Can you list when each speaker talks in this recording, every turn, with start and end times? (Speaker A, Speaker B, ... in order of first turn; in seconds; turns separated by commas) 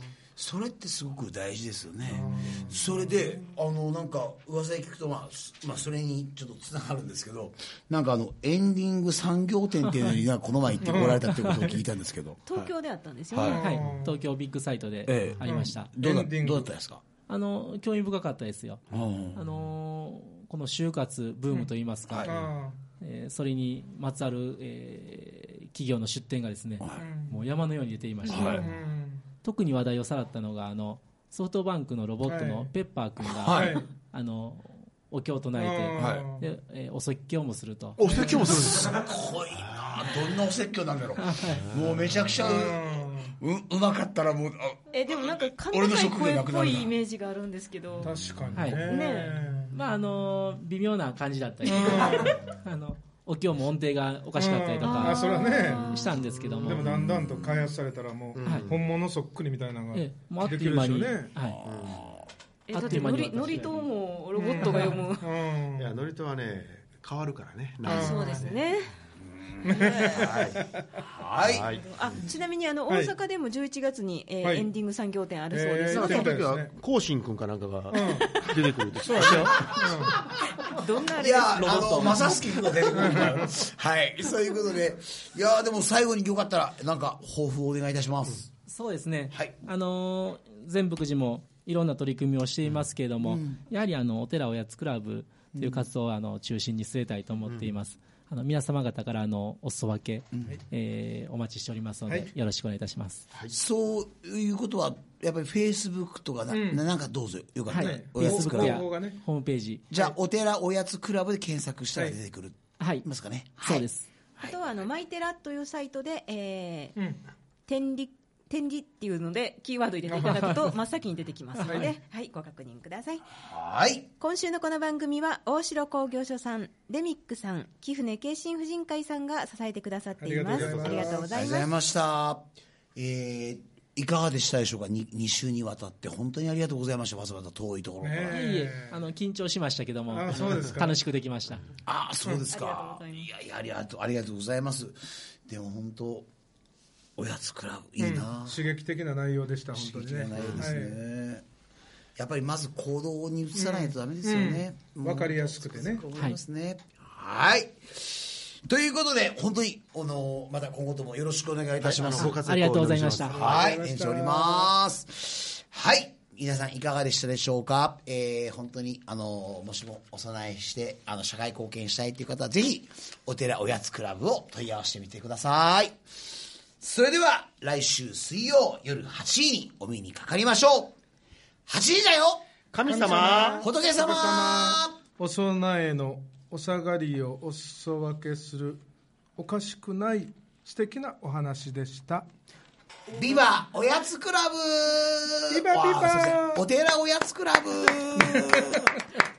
Speaker A: 0.3-12.7, Speaker B: 2.0-3.4, Speaker B: 10.8-11.2, Speaker C: 11.2-11.8, Speaker D: 12.5-13.8, Speaker A: 13.3-13.6, Speaker B: 13.5-14.2, Speaker C: 13.5-15.9, Speaker A: 15.1-17.0, Speaker B: 15.4-16.7, Speaker C: 17.3-18.8, Speaker A: 18.9-19.4, Speaker C: 19.3-28.7, Speaker A: 22.1-22.4, Speaker B: 22.2-22.8, Speaker A: 26.8-27.1, Speaker B: 27.0-27.4, Speaker D: 28.3-28.6, Speaker A: 28.3-28.6, Speaker B: 28.5-29.2, Speaker C: 29.4-38.7, Speaker B: 32.2-32.7, Speaker A: 33.2-33.8, Speaker B: 33.5-33.9, Speaker B: 35.5-36.5, Speaker A: 36.0-36.2, Speaker E: 38.0-39.0, Speaker A: 38.4-46.9, Speaker E: 39.6-40.1, Speaker C: 41.1-41.6, Speaker E: 41.6-42.3, Speaker B: 42.4-43.4, Speaker D: 44.9-48.2, Speaker E: 48.0-48.6, Speaker B: 48.0-49.7, Speaker C: 48.5-48.9, Speaker D: 48.7-49.4, Speaker C: 49.7-57.0, Speaker B: 51.6-52.4, Speaker D: 52.1-52.4, Speaker B: 54.4-56.0, Speaker D: 54.8-56.1, Speaker E: 56.2-56.8, Speaker B: 56.6-61.3, Speaker A: 56.8-57.7, Speaker E: 58.3-58.8, Speaker C: 58.4-58.7, Speaker C: 59.9-61.6, Speaker A: 61.5-62.3, Speaker E: 61.6-62.1, Speaker D: 62.7-65.3, Speaker C: 62.7-63.9, Speaker B: 62.8-63.1, Speaker B: 64.3-65.9, Speaker E: 65.8-68.6, Speaker D: 67.8-68.9, Speaker B: 67.8-68.5, Speaker A: 69.2-71.8, Speaker B: 69.6-71.0, Speaker E: 70.1-70.5, Speaker E: 71.4-71.9, Speaker D: 71.7-76.4, Speaker B: 72.9-73.1, Speaker B: 74.4-74.7, Speaker B: 75.5-76.7, Speaker E: 75.9-80.2, Speaker B: 77.9-78.3, Speaker D: 77.9-78.6, Speaker B: 79.0-80.2, Speaker D: 80.7-82.7, Speaker A: 81.1-88.5, Speaker C: 81.5-82.7, Speaker B: 82.9-83.5, Speaker C: 88.7-103.2, Speaker A: 89.3-89.6, Speaker A: 93.2-93.6, Speaker A: 95.5-95.9, Speaker A: 103.5-108.9, Speaker B: 106.5-106.8, Speaker C: 107.7-109.8, Speaker B: 107.7-109.2, Speaker A: 109.9-113.9, Speaker C: 112.8-113.1, Speaker C: 113.6-114.1, Speaker D: 114.4-117.0, Speaker B: 117.0-117.2, Speaker D: 117.7-123.2, Speaker B: 120.1-120.7, Speaker C: 121.6-121.9, Speaker B: 121.6-121.9, Speaker A: 123.4-124.1, Speaker D: 124.2-131.7, Speaker B: 130.2-131.3, Speaker E: 130.6-131.2, Speaker A: 131.3-138.6, Speaker B: 138.0-139.0, Speaker C: 138.2-141.7, Speaker B: 140.1-141.0, Speaker A: 141.8-146.3, Speaker D: 142.5-143.3, Speaker A: 147.2-148.6, Speaker B: 148.0-151.0, Speaker A: 149.7-151.4, Speaker A: 152.2-162.3, Speaker B: 153.5-156.0, Speaker E: 161.8-163.8, Speaker C: 162.2-163.4, Speaker A: 163.3-176.0, Speaker B: 163.5-164.7, Speaker A: 176.8-180.9, Speaker A: 181.7-182.4, Speaker E: 182.7-183.6, Speaker B: 182.8-188.8, Speaker A: 183.6-185.0, Speaker B: 189.3-192.3, Speaker A: 193.1-199.0, Speaker B: 195.5-196.6, Speaker B: 198.1-199.0